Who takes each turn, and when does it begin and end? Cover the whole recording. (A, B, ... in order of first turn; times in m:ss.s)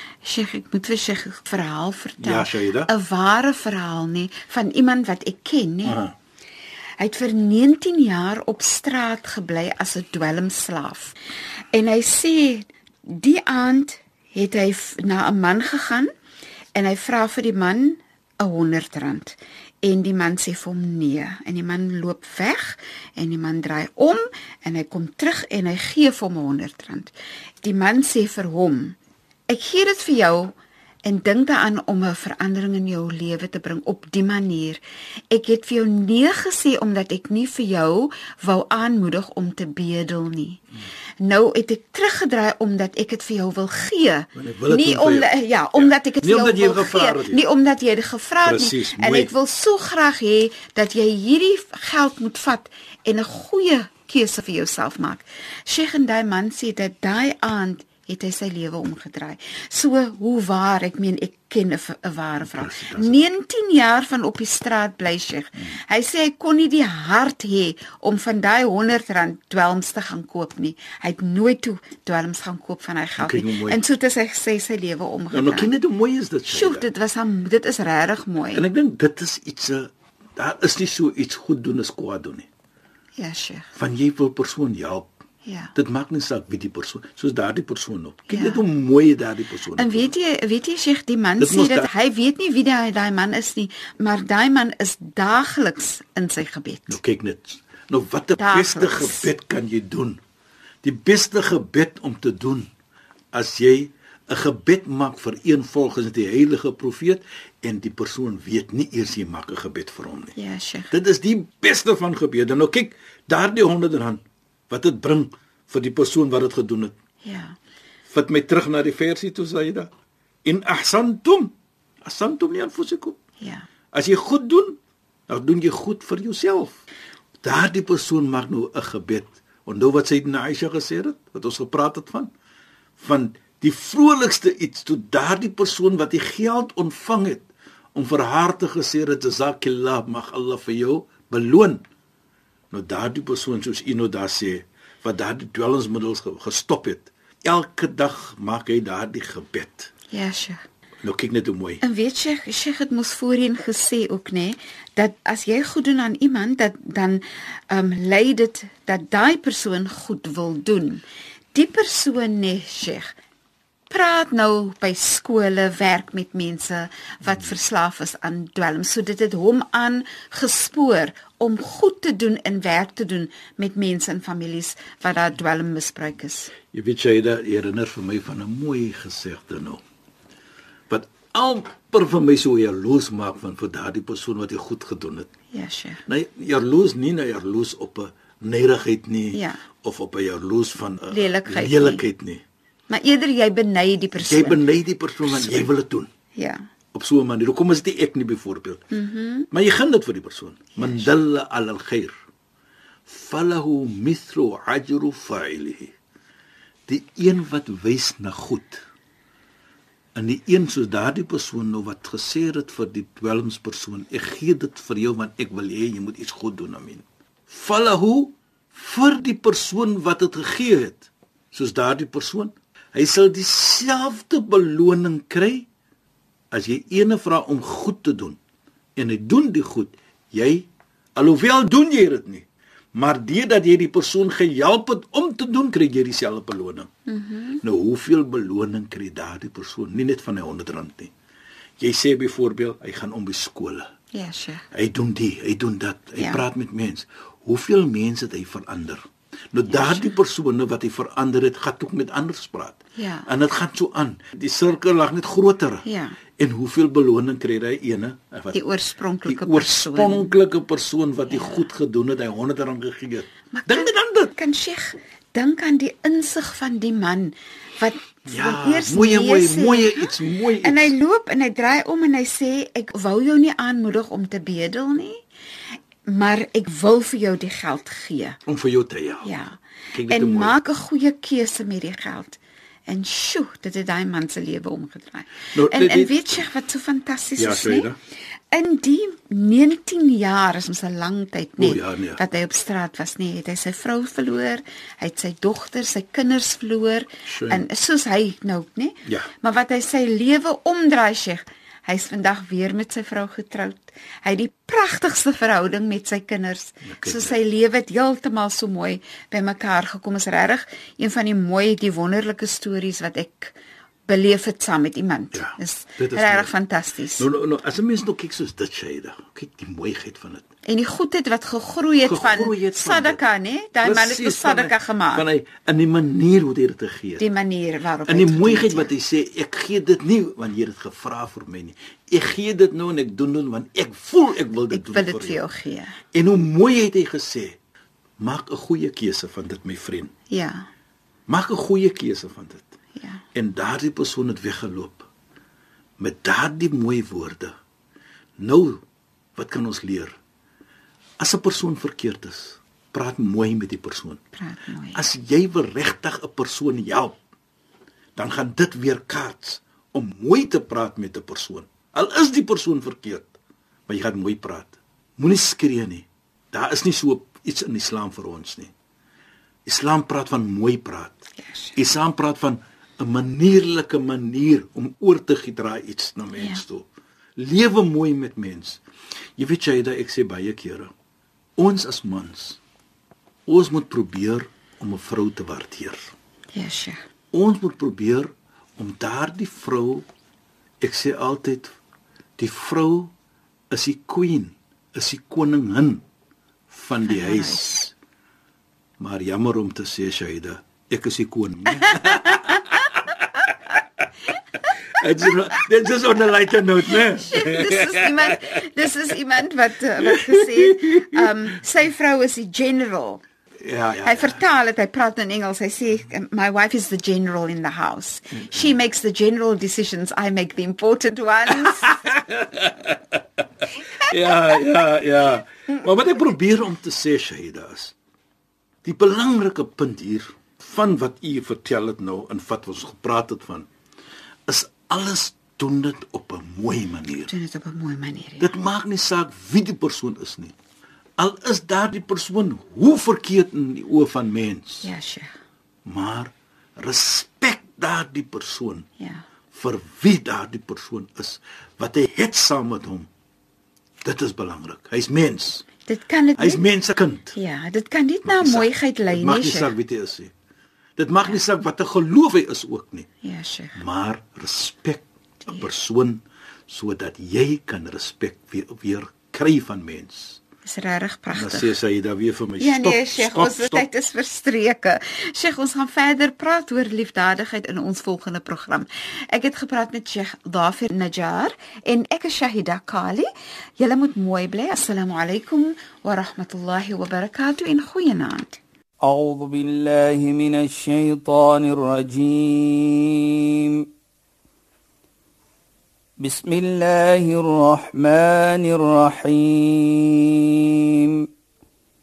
0:00.2-0:06.0 A
0:02.2-0:02.9 B
0:05.8-0:06.1 B
0:07.0-0:11.2 A
0:11.7-0:16.1 A
0:16.8-0:29.0 A
0:29.5-0:40.6 A
0:41.2-1:15.7 A
0:44.3-0:47.4 B
0:48.4-0:49.3 B
1:02.4-1:03.2 B
1:13.2-1:13.8 B
1:15.3-1:16.9 B
1:16.5-1:18.6 A
1:18.5-1:22.5 B
1:23.2-1:23.7 A
1:23.8-1:25.1 B
1:25.4-1:25.7 A
1:25.8-1:30.1 B
1:28.3-1:28.6 A
1:29.8-1:37.0 A
1:31.4-1:31.9 B
1:36.9-1:40.2 B
1:38.4-1:39.3 A
1:40.8-1:42.7 B
1:43.3-1:50.3 B
1:50.4-1:50.9 A
1:50.9-1:56.9 B
1:57.2-1:57.6 A
1:58.1-1:59.9 B
2:00.4-2:03.2 B
2:03.4-2:03.6 A
2:03.9-2:04.8 B
2:05.3-2:06.8 B
2:07.4-2:12.3 B
2:13.0-2:21.8 B
2:22.7-2:29.9 B
2:30.1-2:30.6 A
2:31.0-2:31.8 B
2:31.8-2:43.1 A
2:43.9-2:56.5 A
2:56.7-2:59.8 B
3:00.9-3:05.3 B
3:05.5-3:06.0 A
3:06.1-3:12.4 B
3:09.3-3:09.6 A
3:11.1-3:12.0 A
3:12.9-3:14.6 A
3:14.2-3:16.1 B
3:15.3-3:15.7 A
3:16.3-3:16.6 A
3:16.9-3:18.8 B
3:18.9-3:19.5 A
3:19.5-3:22.1 B
3:20.8-3:21.1 A
3:23.1-3:25.9 B
3:26.9-3:28.8 B
3:30.1-3:45.7 B
3:46.5-3:48.4 B
3:49.0-3:56.9 B
3:57.1-3:57.6 A
3:57.6-4:01.1 B
4:01.8-4:03.9 B
4:04.1-4:04.6 A
4:04.7-4:15.8 B
4:06.2-4:06.4 A
4:09.7-4:10.1 A
4:13.0-4:13.3 A
4:15.8-4:16.2 A
4:16.4-4:18.6 B
4:18.5-4:20.3 A
4:19.2-4:24.3 B
4:21.3-4:21.7 A
4:23.5-4:35.2 A
4:28.3-4:30.9 B
4:36.0-4:38.4 A
4:38.4-4:39.3 B
4:39.2-4:47.9 A
4:39.9-4:40.6 B
4:45.5-4:46.4 B
4:47.4-4:48.0 B
4:48.5-5:17.3 A
4:51.6-4:52.2 B
4:57.2-4:57.6 B
5:06.8-5:07.4 B
5:15.3-5:16.5 B
5:17.2-5:20.4 B
5:20.6-5:25.2 A
5:22.0-5:23.2 B
5:23.8-5:27.2 B
5:27.2-5:28.9 A
5:28.0-5:35.4 B
5:34.7-5:36.0 A
5:36.1-5:37.6 B
5:38.2-5:40.1 B
5:40.3-5:40.7 A
5:41.3-5:42.7 B
5:43.0-5:43.2 A
5:43.3-5:45.1 B
5:46.0-5:47.6 B
5:48.4-5:48.8 B
5:49.4-5:50.2 B
5:51.2-5:54.2 B
5:54.3-5:55.0 A
5:54.9-5:57.2 B
5:58.2-6:03.4 B
6:03.9-6:08.7 B
6:09.6-6:11.2 B
6:11.4-6:11.7 A
6:11.8-6:16.9 B
6:16.4-6:16.6 A
6:17.4-6:18.8 B
6:19.4-6:20.9 B
6:21.6-6:22.6 B
6:23.5-6:26.1 B
6:26.5-6:27.0 A
6:27.3-6:30.1 B
6:30.8-6:31.8 B
6:32.4-6:33.1 B
6:33.7-6:36.0 B
6:36.7-6:37.9 B
6:37.0-6:37.8 A
6:39.0-6:44.1 B
6:41.8-6:42.6 A
6:44.9-6:48.4 B
6:46.9-6:53.2 A
6:50.0-6:51.3 B
6:53.6-6:54.4 B
6:54.0-7:02.1 A
6:58.4-6:58.7 B
7:01.6-7:07.9 B
7:08.8-7:13.7 B
7:14.5-7:17.3 B
7:17.3-7:18.6 A
7:18.4-7:20.5 B
7:21.2-7:24.9 B
7:24.8-7:25.3 A
7:25.8-7:28.9 B
7:29.0-7:29.2 A
7:29.5-7:33.1 B
7:34.0-7:35.7 B
7:35.8-7:36.6 A
7:36.4-7:37.4 B
7:37.3-7:39.7 A
7:38.2-7:40.3 B
7:41.0-7:43.1 B
7:43.2-7:43.8 A
7:43.7-7:50.4 B
7:50.6-7:51.8 A
7:51.3-7:53.9 B
7:52.6-8:03.3 A
8:03.8-8:08.6 A
8:09.0-8:13.8 C
8:16.2-8:21.3 C